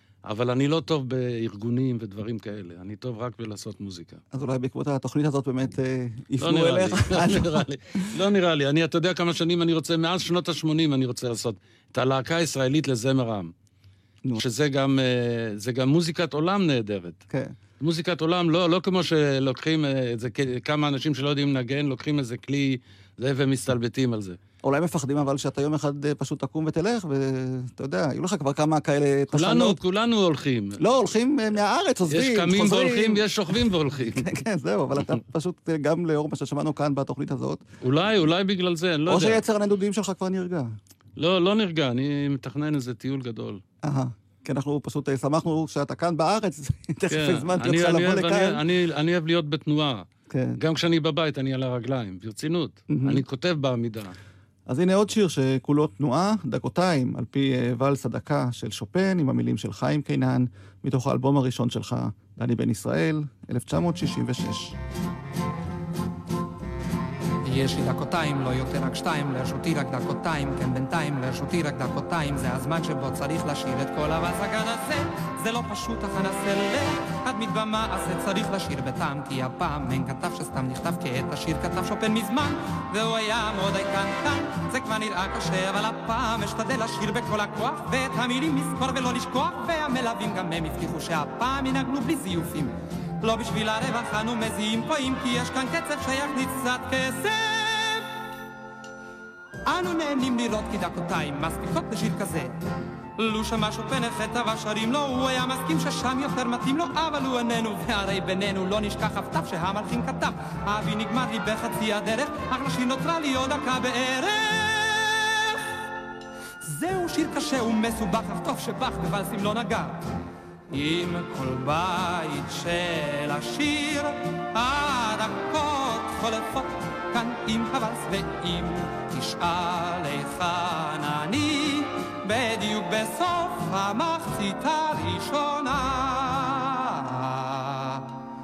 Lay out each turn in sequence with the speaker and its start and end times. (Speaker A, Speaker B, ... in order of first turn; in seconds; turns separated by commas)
Speaker A: 0.2-4.2, Speaker B: 4.3-7.7, Speaker A: 6.4-13.5, Speaker A: 14.4-17.2, Speaker B: 17.3-17.6, Speaker A: 17.8-24.4, Speaker B: 24.6-29.8, Speaker A: 29.3-30.8, Speaker B: 30.8-33.3, Speaker A: 32.1-34.3, Speaker B: 34.1-37.6, Speaker A: 37.8-39.4, Speaker B: 39.1-40.7, Speaker A: 41.2-43.6, Speaker B: 43.8-48.6, Speaker A: 47.1-50.1, Speaker B: 50.3-50.6, Speaker A: 50.6-54.1, Speaker B: 52.9-53.2, Speaker B: 54.7-64.7, Speaker C: 67.4-98.1, Speaker C: 99.7-102.5, Speaker C: 103.2-115.7, Speaker C: 116.6-120.0, Speaker C: 120.7-138.1